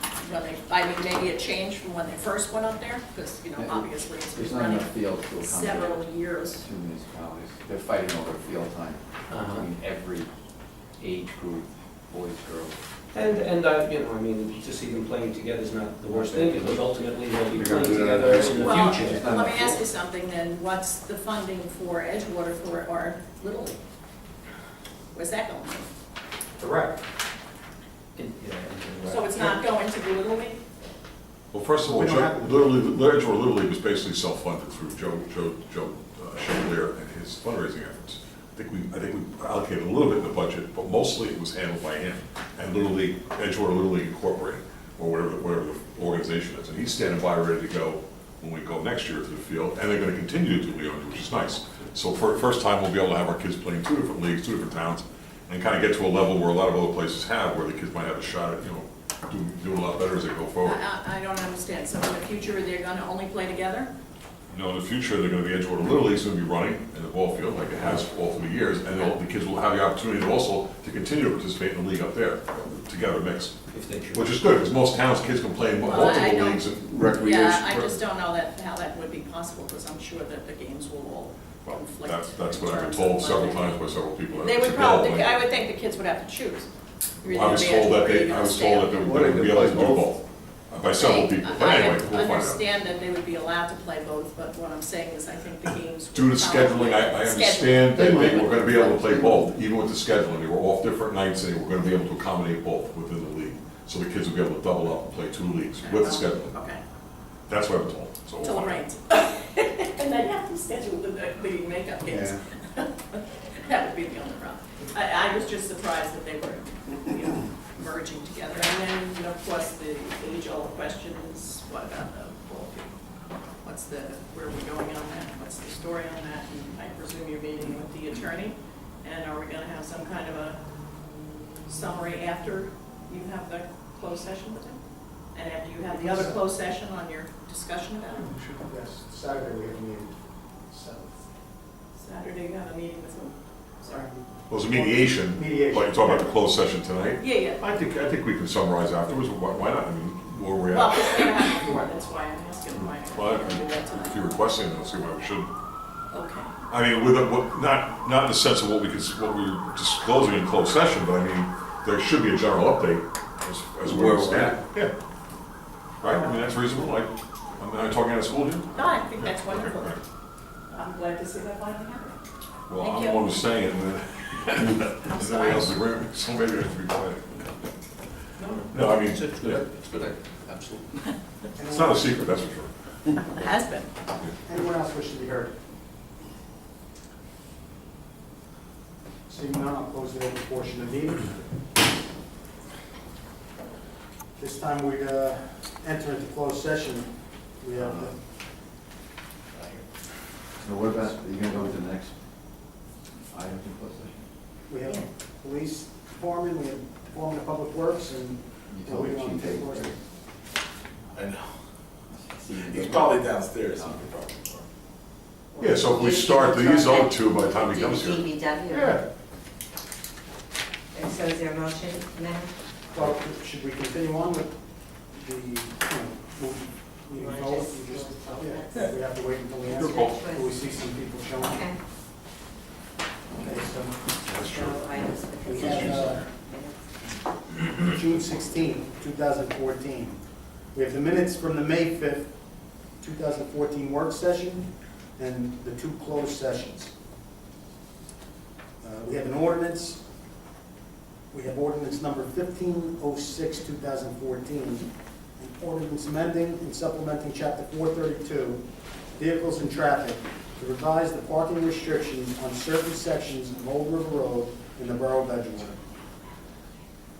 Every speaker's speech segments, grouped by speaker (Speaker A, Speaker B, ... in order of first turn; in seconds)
Speaker A: 0.2-6.6, 18.6-23.8, 25.1-25.9, 29.0-30.6, 60.6-63.9, 75.8-83.8, 84.3-86.7, 87.2-89.4, 91.0-98.2, 105.8-106.8, 108.4-123.0, 123.6-130.6, 131.7-134.8, 135.3-138.3, 141.9-144.1, 147.2-147.6, 150.7-154.2, 156.1-156.5, 168.7-170.0, 170.7-172.2, 172.8-173.3, 175.1-175.7, 183.2-183.9
Speaker B: 3.5-6.0, 6.6-10.3, 11.0-12.8, 16.1-16.6, 17.5-19.7, 77.0-77.6, 89.1-90.1, 97.9-99.5, 112.1-112.4, 163.8-164.6, 197.8-198.1, 200.6-202.2, 203.3-204.2, 208.7-210.0, 212.3-214.1
Speaker C: 9.3-9.7, 13.1-19.8, 28.1-29.6, 73.7-74.3, 178.4-180.9
Speaker D: 26.6-27.0, 31.8-32.8, 135.9-136.4, 138.2-140.1, 140.7-141.2, 143.9-146.4, 181.5-182.1, 184.4-185.5, 189.3-191.4, 194.4-198.2, 204.7-209.9, 222.9-224.5, 225.1-231.7, 233.3-233.9, 235.4-236.2, 237.6-240.2, 240.7-242.3, 243.0-246.9, 248.8-250.0, 251.3-254.8, 255.4-258.6, 259.2-265.8
Speaker E: 31.5-60.8, 64.5-73.6, 74.1-77.4, 81.6-85.4, 87.2-92.6, 96.1-106.5, 107.5-108.8, 138.2-138.6, 144.5-151.7, 152.8-155.5, 156.7-164.9, 166.0-170.0, 172.7-177.5, 178.7-179.6, 181.7-182.7, 215.6-219.0, 229.7-230.2, 234.3-236.2
Speaker F: 211.1-211.5, 212.6-214.6
Speaker G: 215.6-219.0, 220.9-222.5, 227.2-228.9, 229.7-230.5, 231.4-231.8, 234.3-236.8